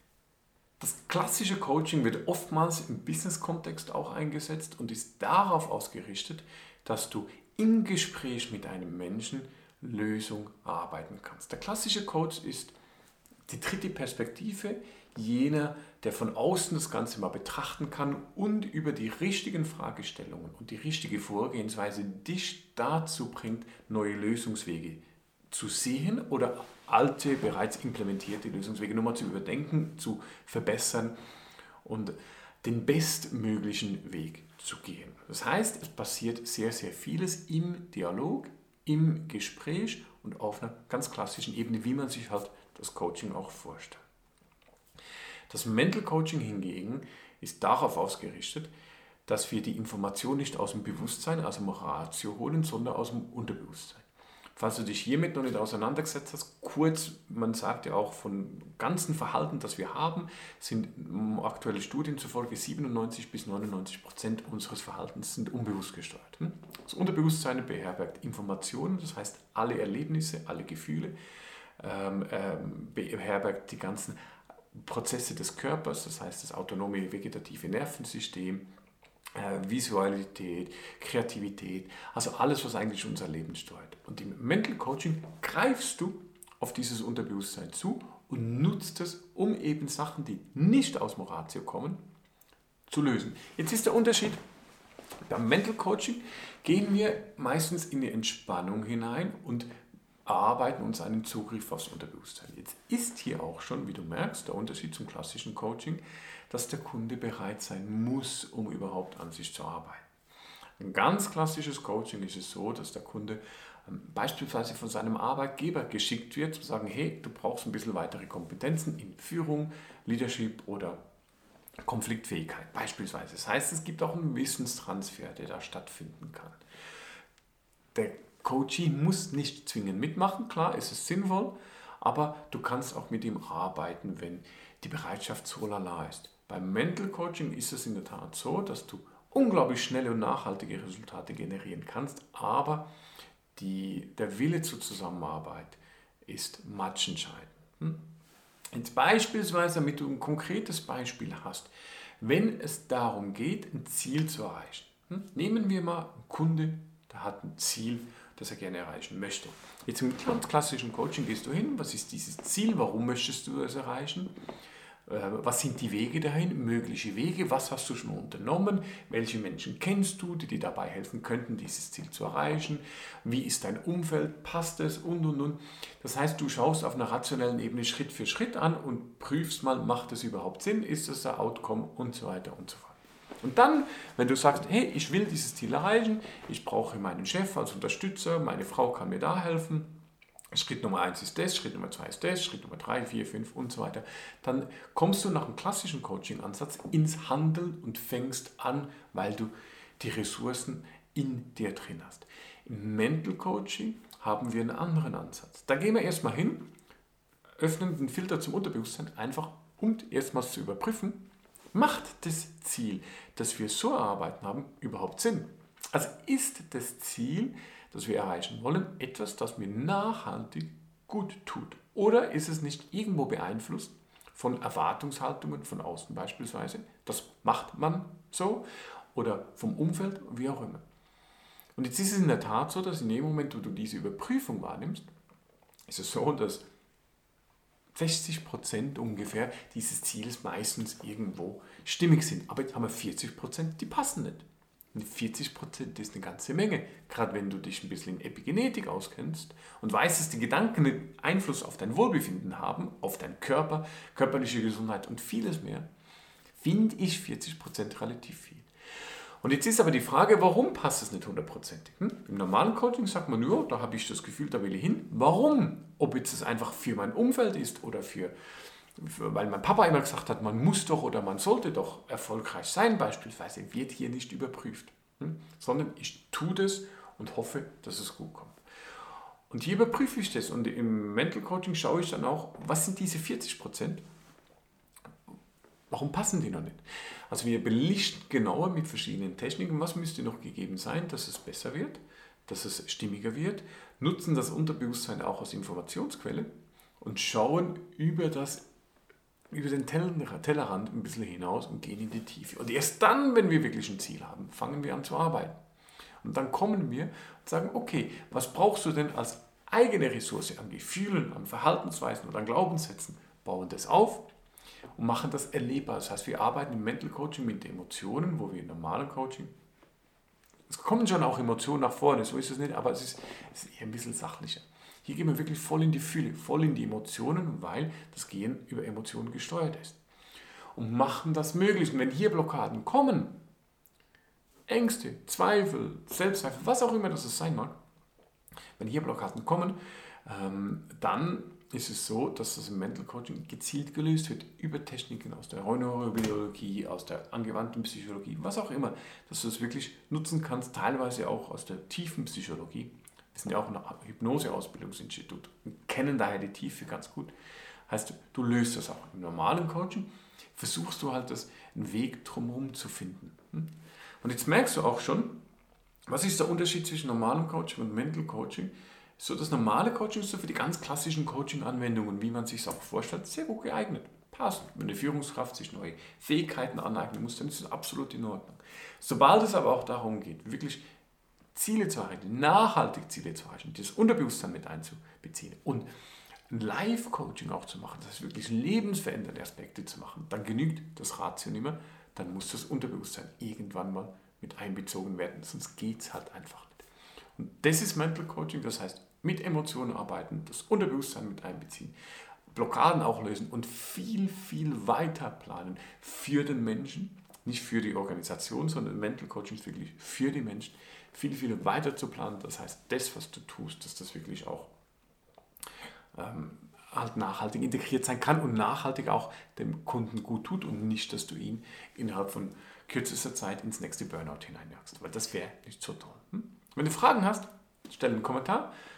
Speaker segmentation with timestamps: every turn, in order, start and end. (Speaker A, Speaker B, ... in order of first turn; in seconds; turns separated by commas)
Speaker A: 0.8-12.8, Speaker A: 13.5-31.1, Speaker A: 31.8-44.0, Speaker A: 45.5-48.7, Speaker A: 49.3-54.0, Speaker A: 54.5-71.1, Speaker A: 71.8-74.2, Speaker A: 74.7-78.7, Speaker A: 79.3-92.0, Speaker A: 92.9-94.4, Speaker A: 95.2-99.7, Speaker A: 100.2-110.0, Speaker A: 110.8-121.0, Speaker A: 121.8-126.6, Speaker A: 127.9-142.9, Speaker A: 143.6-148.0, Speaker A: 148.7-164.3, Speaker A: 165.1-189.9, Speaker A: 190.5-206.7, Speaker A: 207.6-230.8, Speaker A: 231.8-235.1, Speaker A: 235.9-236.7, Speaker A: 237.9-255.8, Speaker A: 256.6-258.6, Speaker A: 259.4-268.3, Speaker A: 268.9-278.6, Speaker A: 279.5-284.0, Speaker A: 285.9-298.6, Speaker A: 299.5-305.6, Speaker A: 306.2-314.2, Speaker A: 314.9-319.5, Speaker A: 320.7-330.0, Speaker A: 330.8-333.4, Speaker A: 334.7-337.8, Speaker A: 338.8-357.3, Speaker A: 357.9-365.4, Speaker A: 366.1-380.8, Speaker A: 381.5-385.9, Speaker A: 386.5-396.8, Speaker A: 397.4-401.9, Speaker A: 402.5-414.7, Speaker A: 416.1-428.7